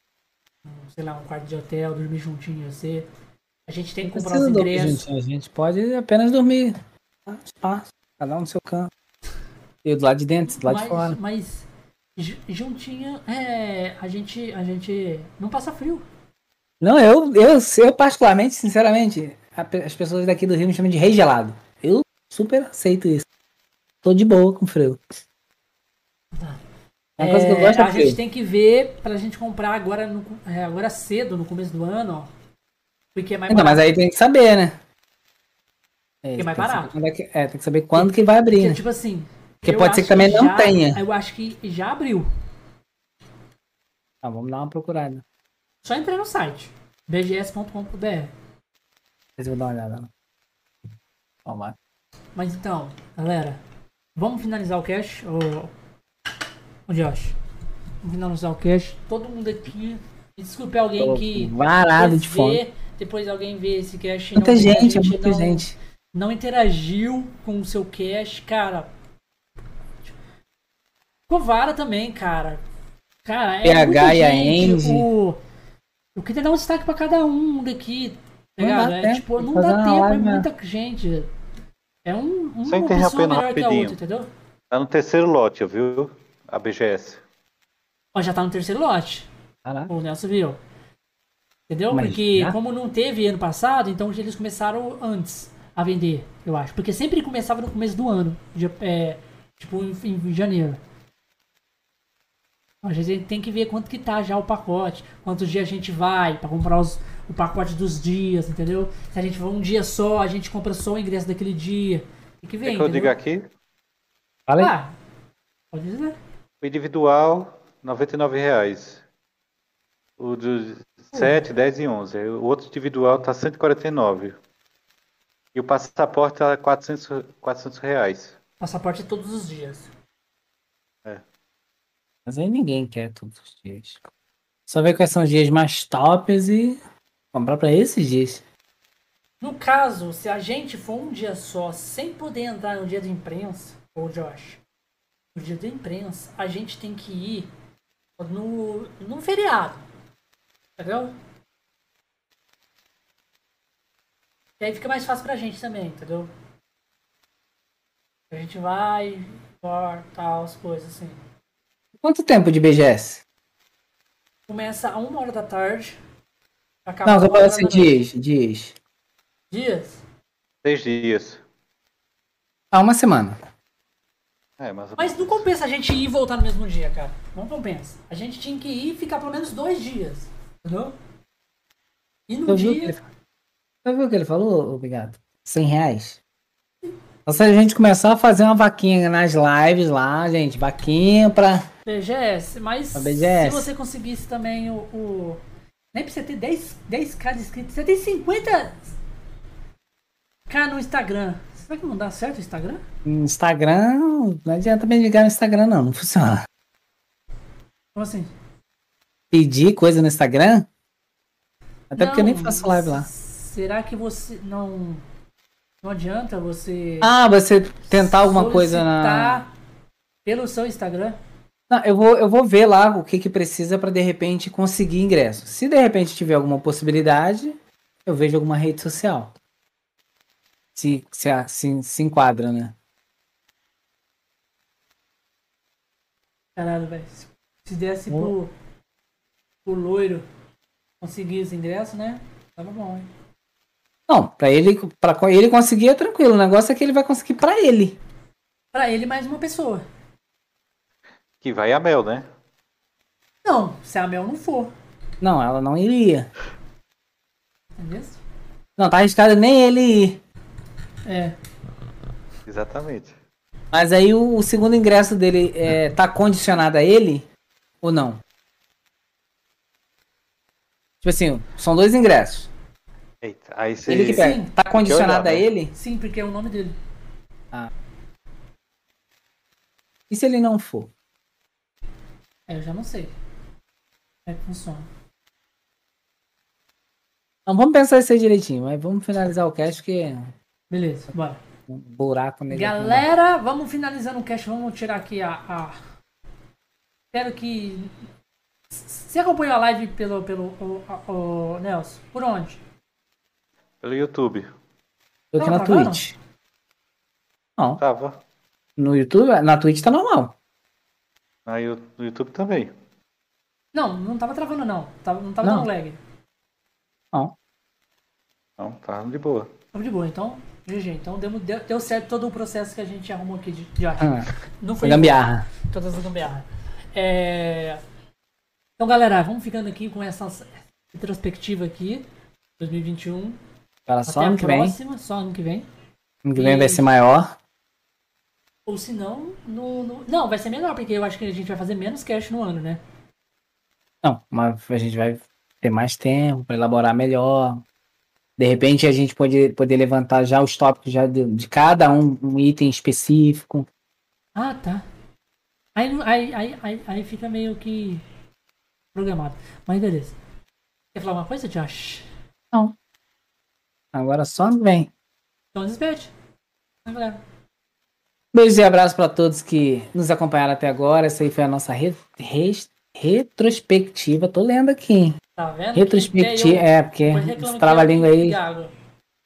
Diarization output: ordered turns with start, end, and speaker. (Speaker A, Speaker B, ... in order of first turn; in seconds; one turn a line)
Speaker A: 0.7-3.1
Speaker A: 3.7-5.0
Speaker B: 4.0-6.8
Speaker B: 7.3-8.9
Speaker B: 9.8-11.2
Speaker A: 10.5-16.0
Speaker B: 16.8-23.2
Speaker B: 24.0-25.0
Speaker A: 26.3-26.6
Speaker A: 27.2-32.3
Speaker B: 27.2-28.2
Speaker A: 33.1-33.8
Speaker B: 33.5-34.8
Speaker B: 36.2-38.8
Speaker A: 36.4-36.9
Speaker A: 37.9-42.3
Speaker B: 39.6-41.0
Speaker B: 44.2-45.2
Speaker A: 45.8-48.3
Speaker B: 49.4-50.1
Speaker B: 51.5-51.7
Speaker A: 52.3-53.6
Speaker A: 54.1-55.7
Speaker A: 56.9-57.4
Speaker A: 58.0-68.9
Speaker B: 61.0-62.6
Speaker B: 64.3-65.7
Speaker A: 71.3-72.6
Speaker A: 73.2-75.4
Speaker B: 73.6-75.1
Speaker A: 76.2-81.3
Speaker B: 78.6-80.5
Speaker A: 82.0-84.3
Speaker C: 82.7-84.0
Speaker C: 84.7-87.2
Speaker A: 88.1-89.3
Speaker B: 89.6-89.9
Speaker A: 89.9-90.6
Speaker A: 91.7-100.8
Speaker B: 91.9-92.6
Speaker A: 102.8-113.1
Speaker C: 112.6-113.5
Speaker B: 114.5-114.7
Speaker A: 114.6-114.9
Speaker A: 115.7-116.2
Speaker C: 116.6-119.0
Speaker C: 120.2-124.3
Speaker A: 121.1-121.4
Speaker C: 125.5-128.4
Speaker A: 128.6-129.9
Speaker B: 132.2-134.1
Speaker B: 134.7-136.8
Speaker B: 137.3-138.4
Speaker A: 139.4-144.6
Speaker A: 145.3-147.5
Speaker A: 148.2-149.8
Speaker A: 150.8-151.1
Speaker A: 154.6-156.3
Speaker A: 158.3-161.2
Speaker B: 162.0-163.2
Speaker A: 164.5-166.0
Speaker A: 166.8-168.0
Speaker B: 167.1-168.8
Speaker A: 169.5-170.0
Speaker C: 170.6-171.4
Speaker B: 172.7-173.4
Speaker C: 174.6-175.4
Speaker A: 175.0-180.9
Speaker A: 182.3-182.9
Speaker B: 182.5-183.0
Speaker B: 183.8-186.2
Speaker B: 187.2-191.7
Speaker A: 191.8-195.4
Speaker B: 192.9-193.7
Speaker A: 195.9-198.9
Speaker A: 200.5-202.8
Speaker B: 203.0-206.4
Speaker A: 207.9-208.3
Speaker B: 209.3-210.7
Speaker B: 211.9-213.1
Speaker A: 211.9-215.0
Speaker A: 215.8-217.1
Speaker B: 217.0-219.4
Speaker A: 217.8-219.5
Speaker A: 220.2-221.2
Speaker B: 221.7-229.3
Speaker B: 230.8-232.7
Speaker A: 236.6-238.5
Speaker A: 239.6-240.2
Speaker A: 241.0-243.1
Speaker B: 244.1-248.0
Speaker A: 248.7-249.8
Speaker C: 251.4-252.3
Speaker A: 253.4-254.7
Speaker B: 255.2-256.3
Speaker A: 257.8-258.2
Speaker B: 258.8-260.2
Speaker A: 261.1-261.3
Speaker C: 262.5-263.1
Speaker B: 263.7-267.2
Speaker B: 267.8-268.2
Speaker B: 271.0-272.5
Speaker C: 273.2-275.4
Speaker B: 273.9-275.7
Speaker A: 273.9-274.5
Speaker A: 275.7-276.7
Speaker B: 280.1-280.9
Speaker A: 282.5-283.1
Speaker A: 284.3-284.9
Speaker B: 287.4-290.3
Speaker A: 290.7-291.4
Speaker B: 291.7-293.1
Speaker A: 292.5-295.8
Speaker A: 297.1-297.9
Speaker A: 298.7-302.6
Speaker C: 303.8-304.5
Speaker B: 305.3-306.1
Speaker A: 305.4-306.1
Speaker C: 307.8-308.2
Speaker B: 308.8-310.3
Speaker C: 311.5-312.7
Speaker A: 313.7-316.0
Speaker B: 315.4-315.7
Speaker C: 318.6-319.5
Speaker A: 319.7-324.1
Speaker B: 324.0-324.3
Speaker A: 324.6-327.8
Speaker B: 324.8-325.5
Speaker A: 328.8-332.0
Speaker A: 332.6-333.4
Speaker B: 333.9-334.8
Speaker A: 334.1-335.7
Speaker B: 336.2-337.4
Speaker A: 336.4-336.8
Speaker A: 338.6-342.8
Speaker B: 344.0-347.6
Speaker B: 348.4-353.7
Speaker A: 354.3-354.8
Speaker A: 355.8-358.0
Speaker A: 358.9-360.1
Speaker A: 360.9-362.1
Speaker B: 363.9-364.9
Speaker A: 365.5-366.1
Speaker A: 366.8-367.2
Speaker B: 368.3-375.2
Speaker A: 375.4-378.7
Speaker B: 375.7-378.4